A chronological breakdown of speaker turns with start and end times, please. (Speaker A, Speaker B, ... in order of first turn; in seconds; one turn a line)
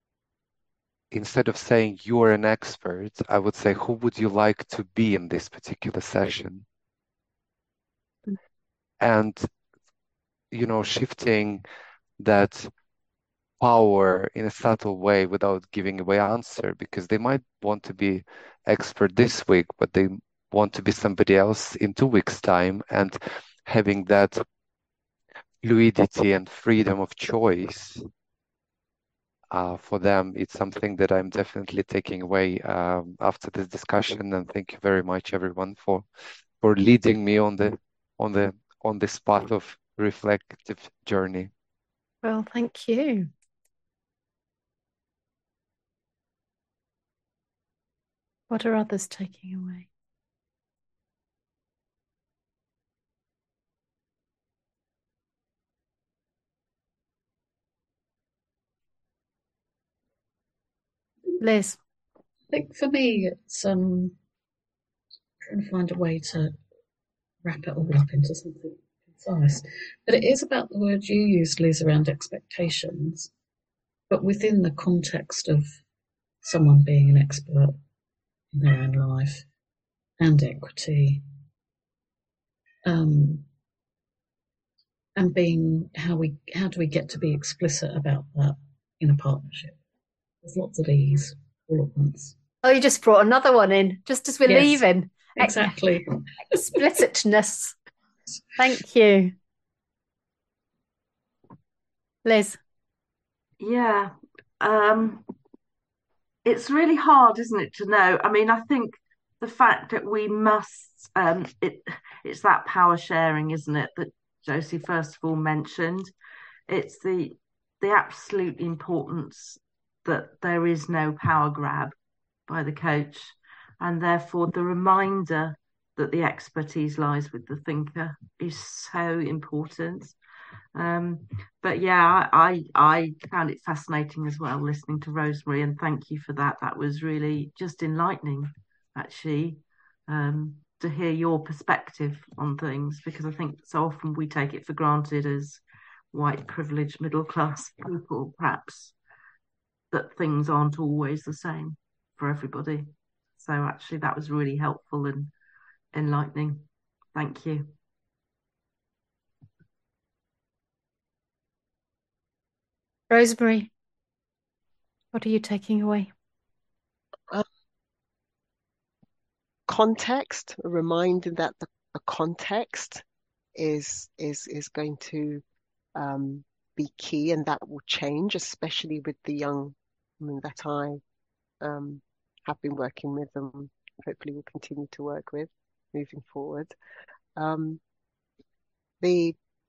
Speaker A: 1.1-6.7
Speaker A: 9.0-9.5
Speaker A: 10.5-11.6
Speaker A: 12.2-12.7
Speaker A: 13.6-24.4
Speaker A: 25.6-28.0
Speaker A: 29.5-36.0
Speaker A: 36.6-41.5
Speaker B: 42.2-43.3
Speaker B: 48.5-49.9
Speaker B: 61.4-61.8
Speaker C: 62.5-64.2
Speaker C: 65.4-66.5
Speaker C: 67.4-73.3
Speaker C: 74.1-75.8
Speaker C: 76.4-77.8
Speaker C: 78.5-79.5
Speaker C: 80.2-81.2
Speaker C: 82.8-83.5
Speaker C: 85.2-89.8
Speaker C: 90.4-92.3
Speaker B: 92.6-95.7
Speaker C: 94.5-94.8
Speaker C: 95.4-96.0
Speaker B: 96.5-97.8
Speaker B: 98.6-99.3
Speaker B: 102.2-102.6
Speaker D: 103.6-105.3
Speaker D: 106.5-116.1
Speaker D: 116.7-121.9
Speaker D: 122.5-130.2
Speaker D: 130.8-145.6
Speaker D: 146.1-148.9
Speaker D: 149.9-155.3
Speaker D: 155.9-157.7
Speaker B: 163.1-163.7
Speaker B: 165.1-166.1
Speaker E: 169.7-173.0
Speaker E: 173.6-175.4
Speaker E: 175.9-181.0
Speaker E: 181.6-186.7
Speaker E: 187.4-187.8
Speaker E: 189.0-189.4